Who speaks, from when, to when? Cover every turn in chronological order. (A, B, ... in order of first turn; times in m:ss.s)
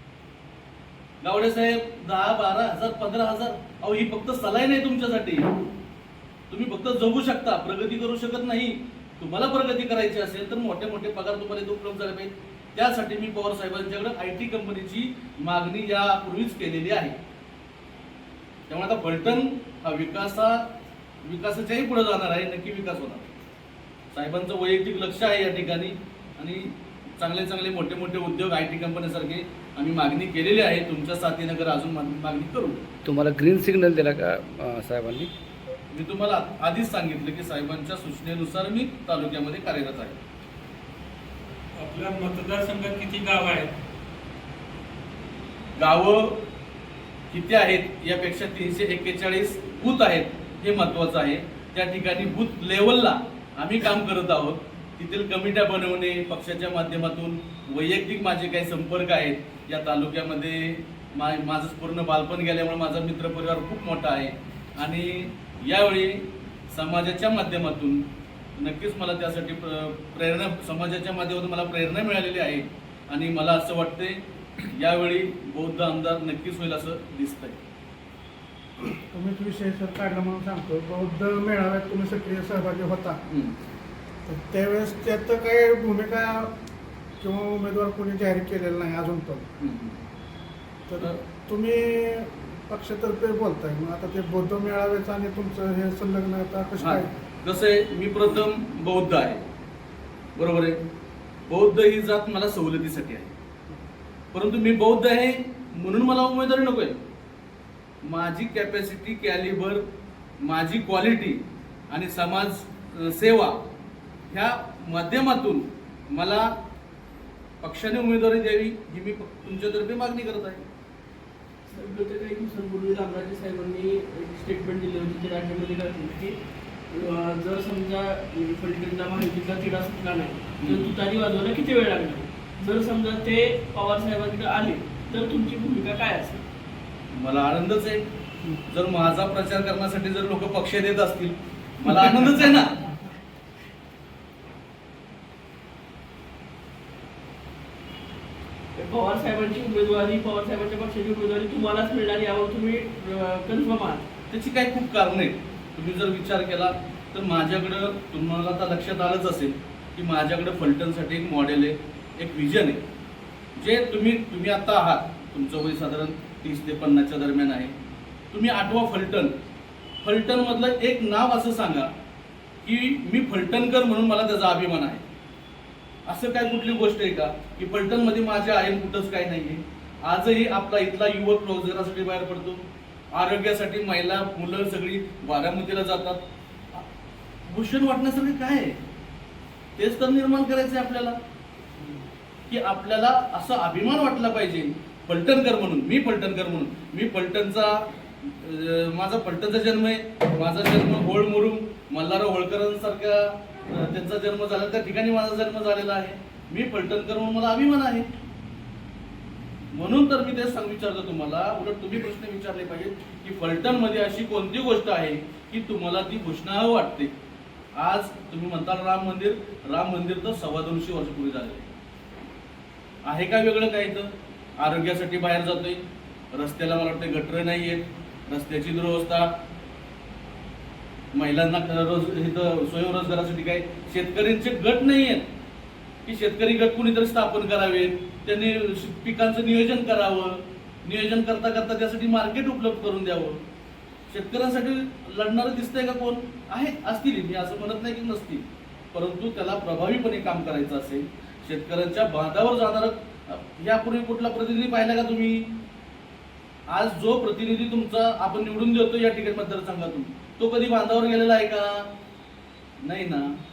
0:01.2-0:05.5 A
0:06.5-0:17.2 A
0:18.7-0:20.7 A
0:21.2-0:23.3 A
0:24.1-0:32.8 A
0:33.0-0:35.3 B
0:35.9-0:40.2 A
0:41.8-0:43.7 C
0:45.8-0:46.4 A
0:47.3-1:08.0 A
1:08.6-1:17.6 A
1:19.1-1:23.2 D
1:23.3-1:23.5 A
1:24.2-1:26.5 D
1:27.2-1:29.4 D
1:29.6-1:30.0 A
1:30.9-1:37.1 D
1:36.8-1:39.4 A
1:40.4-1:40.8 A
1:41.5-1:43.3 A
1:44.3-1:47.0 A
1:48.0-1:49.8 A
1:50.4-1:53.6 A
1:54.3-1:56.5 A
1:57.6-2:00.6 A
2:01.7-2:06.4 E
2:06.9-2:16.4 E
2:10.6-2:10.9 A
2:17.1-2:18.0 A
2:18.7-2:22.9 A
2:28.8-2:34.0 E
2:34.3-2:42.8 A
2:43.6-2:47.7 A
2:48.3-2:49.3 A
2:50.0-2:51.9 A
2:52.6-2:55.0 A
2:56.1-3:06.2 A
3:07.5-3:08.8 A
3:09.8-3:11.2 A
3:12.5-3:28.1 A
3:29.7-3:37.1 A
3:37.7-3:41.7 A
3:43.0-3:45.8 A
3:46.3-3:49.3 A
3:51.1-3:55.3 A
3:56.0-4:03.4 A
4:04.1-4:15.6 A
4:16.7-4:21.9 A
4:22.8-4:23.3 A